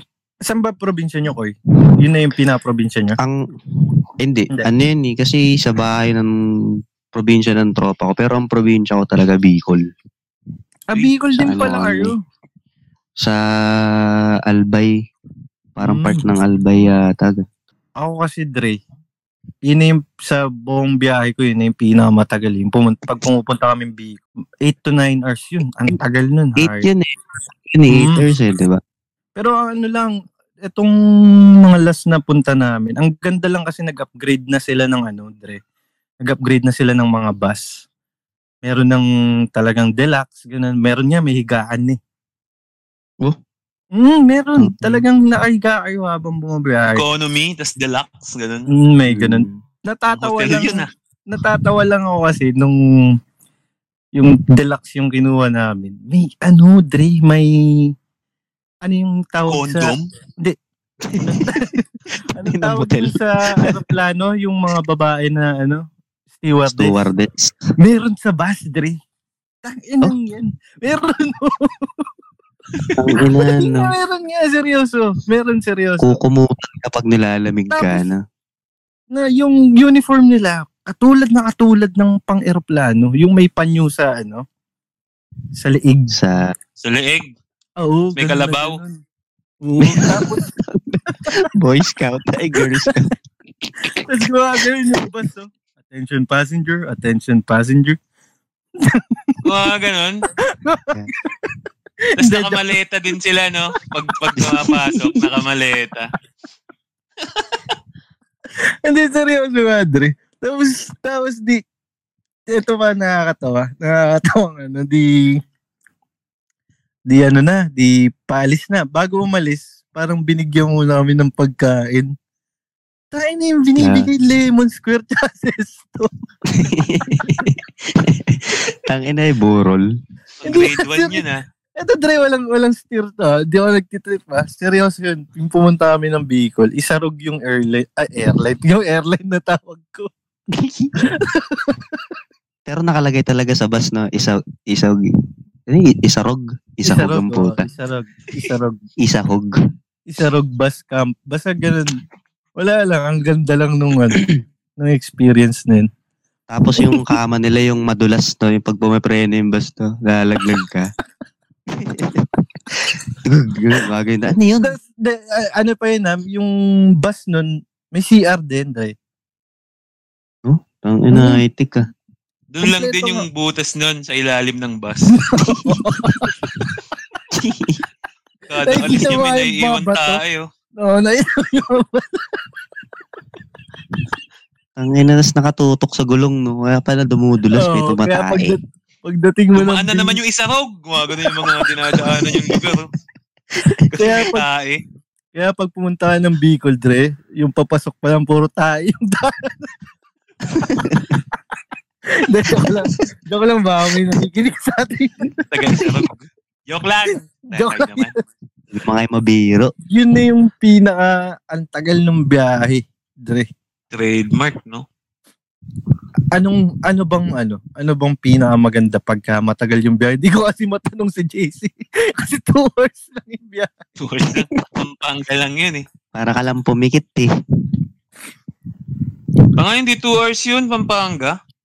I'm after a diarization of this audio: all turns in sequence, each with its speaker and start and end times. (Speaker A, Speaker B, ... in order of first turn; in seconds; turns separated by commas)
Speaker A: 0.5-3.2, Speaker B: 4.2-6.3, Speaker B: 7.1-9.8, Speaker A: 10.9-12.2, Speaker B: 11.4-12.1, Speaker B: 13.2-14.9, Speaker B: 15.8-17.4, Speaker A: 15.8-16.2, Speaker A: 18.0-18.8, Speaker A: 19.6-26.9, Speaker B: 26.6-27.1, Speaker B: 27.7-28.8, Speaker A: 27.9-28.3, Speaker A: 29.4-30.9, Speaker A: 31.6-35.6, Speaker A: 36.2-37.6, Speaker A: 38.6-42.0, Speaker A: 43.9-47.0, Speaker B: 44.6-45.0, Speaker C: 46.9-48.7, Speaker A: 48.7-52.8, Speaker B: 49.1-49.6, Speaker C: 50.1-50.9, Speaker A: 54.1-57.9, Speaker A: 58.8-60.6, Speaker C: 59.5-60.1, Speaker B: 61.0-61.7, Speaker A: 61.2-65.9, Speaker B: 62.4-63.8, Speaker A: 66.4-67.0, Speaker B: 66.7-67.6, Speaker A: 67.8-69.0, Speaker A: 69.6-72.1, Speaker A: 72.8-76.2, Speaker B: 73.0-73.9, Speaker B: 76.0-78.2, Speaker A: 77.7-78.0, Speaker A: 79.1-84.4, Speaker A: 85.6-86.2, Speaker B: 86.1-86.4, Speaker C: 86.8-87.3, Speaker A: 87.8-89.0, Speaker C: 88.2-88.8, Speaker A: 89.6-90.4, Speaker B: 89.8-93.1, Speaker A: 93.9-98.0, Speaker A: 98.8-99.4, Speaker C: 99.4-100.2, Speaker A: 100.5-101.5, Speaker A: 102.2-102.7, Speaker C: 102.2-106.1, Speaker B: 104.4-105.2, Speaker A: 108.8-111.6, Speaker A: 112.5-115.4, Speaker A: 117.1-122.1, Speaker A: 123.1-126.1, Speaker B: 123.8-124.1, Speaker B: 126.5-129.8, Speaker C: 130.4-131.4, Speaker A: 130.4-131.2, Speaker A: 131.8-140.1, Speaker B: 140.5-140.9, Speaker A: 141.0-141.9, Speaker B: 142.7-145.0, Speaker B: 145.7-147.7, Speaker A: 146.8-148.8, Speaker B: 149.0-149.6, Speaker A: 150.1-151.9, Speaker A: 152.6-154.3, Speaker A: 154.8-155.9, Speaker B: 156.5-160.9, Speaker B: 161.8-164.8, Speaker A: 164.6-168.9, Speaker B: 170.4-171.8, Speaker A: 171.1-171.4, Speaker C: 172.5-175.2, Speaker A: 172.6-173.2, Speaker A: 175.2-176.5, Speaker B: 175.4-175.8, Speaker B: 177.3-177.8, Speaker C: 178.5-180.4, Speaker A: 178.7-180.2, Speaker A: 180.8-182.2, Speaker B: 184.8-188.6, Speaker A: 187.5-190.2, Speaker C: 189.6-192.9, Speaker B: 192.0-192.7, Speaker A: 193.9-194.4, Speaker C: 193.9-194.8, Speaker A: 195.3-199.7, Speaker A: 200.5-201.2, Speaker B: 200.7-201.2, Speaker A: 202.2-206.0, Speaker C: 205.5-208.1, Speaker A: 207.5-208.1, Speaker B: 208.7-209.7, Speaker A: 209.9-213.5, Speaker C: 213.9-214.8, Speaker A: 216.3-223.8, Speaker C: 224.0-225.8, Speaker B: 226.2-227.3, Speaker C: 229.6-231.4